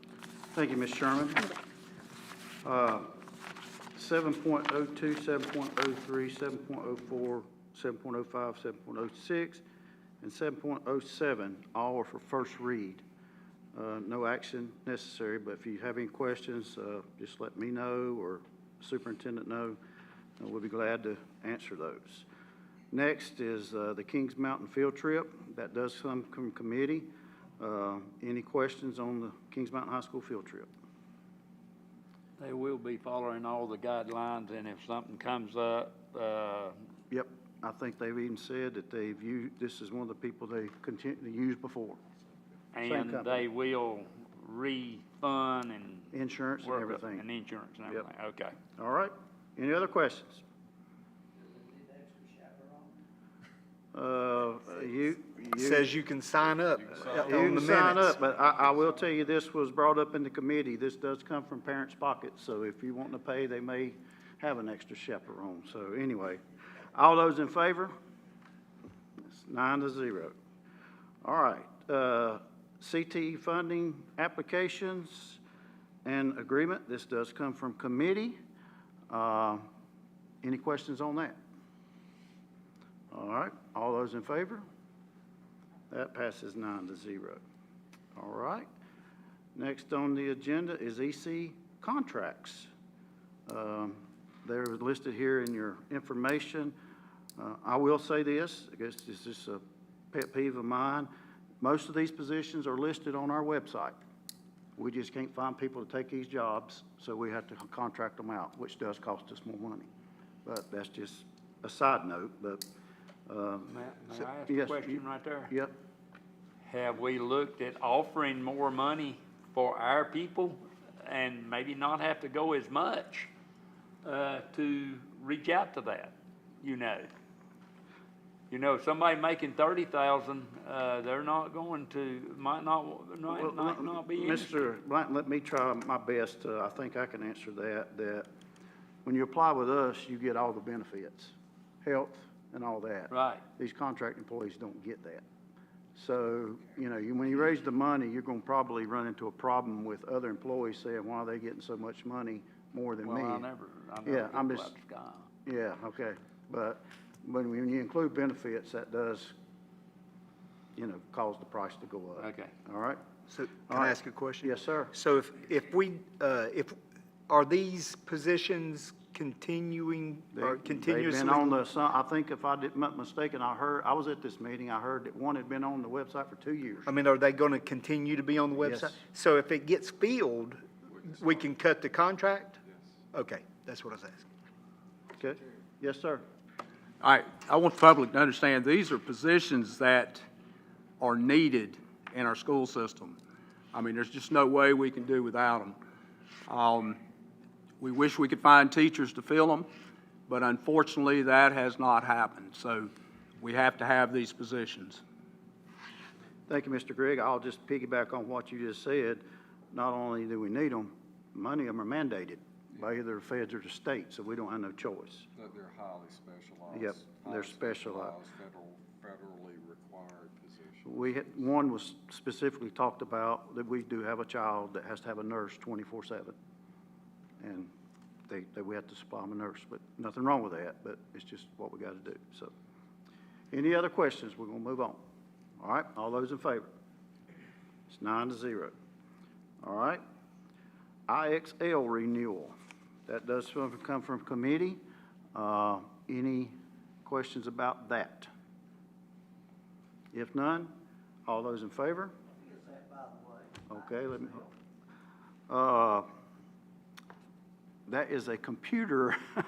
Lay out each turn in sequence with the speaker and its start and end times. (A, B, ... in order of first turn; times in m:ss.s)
0:00.5-0:01.5 A
0:02.6-0:03.1 A
0:04.0-0:09.6 A
0:10.2-0:13.0 A
0:13.7-0:19.8 A
0:20.4-0:22.3 A
0:22.9-0:30.7 A
0:32.4-0:36.8 B
0:37.1-0:42.0 A
0:42.7-0:46.1 B
0:42.8-0:43.5 A
0:46.1-0:47.2 A
0:46.6-0:48.6 B
0:48.8-0:50.4 A
0:53.9-0:55.9 A
0:55.6-0:58.2 C
0:56.5-0:57.4 D
0:57.0-1:06.4 A
0:58.1-0:58.9 D
1:06.9-1:07.9 A
1:09.2-1:10.4 A
1:11.2-1:15.4 A
1:16.0-1:18.4 A
1:19.1-1:19.6 A
1:20.4-1:21.4 A
1:23.1-1:24.6 A
1:25.9-1:27.4 A
1:28.2-1:28.7 A
1:29.6-1:32.7 A
1:33.5-1:36.7 A
1:37.4-1:39.6 A
1:40.1-1:41.1 A
1:41.6-1:44.0 A
1:44.8-1:49.9 A
1:50.4-1:52.6 A
1:53.3-1:53.8 A
1:53.7-1:55.5 B
1:54.5-1:55.7 A
1:56.6-2:03.3 B
2:04.0-2:07.1 B
2:08.5-2:14.6 B
2:13.3-2:18.3 A
2:19.0-2:25.2 A
2:23.1-2:23.4 B
2:26.0-2:33.5 A
2:33.0-2:35.3 B
2:34.0-2:34.7 A
2:35.5-2:39.3 A
2:40.8-2:43.0 A
2:42.2-2:42.5 B
2:43.3-2:46.8 C
2:43.7-2:44.9 A
2:47.3-2:51.5 C
2:50.3-2:57.0 A
2:56.9-3:02.6 C
2:58.6-2:59.0 A
3:00.9-3:01.6 D
3:02.7-3:03.0 D
3:03.1-3:04.3 C
3:05.2-3:06.2 A
3:07.0-3:10.3 E
3:11.0-3:13.2 E
3:13.7-3:15.8 E
3:16.5-3:17.0 E
3:17.8-3:19.7 E
3:20.3-3:25.0 E
3:26.5-3:35.3 A
3:35.4-3:41.5 D
3:36.7-3:38.2 A
3:40.8-3:46.4 A
3:47.4-3:47.7 A
3:48.3-3:52.5 A
3:53.5-3:55.0 A
3:55.6-3:56.7 A
3:57.9-3:58.7 A
3:59.6-4:00.0 A
4:01.1-4:02.6 A
4:03.1-4:04.8 A
4:05.3-4:08.3 A
4:10.1-4:10.7 A
4:11.3-4:12.1 A
4:13.7-4:14.5 A
4:15.5-4:16.1 A
4:17.9-4:19.2 A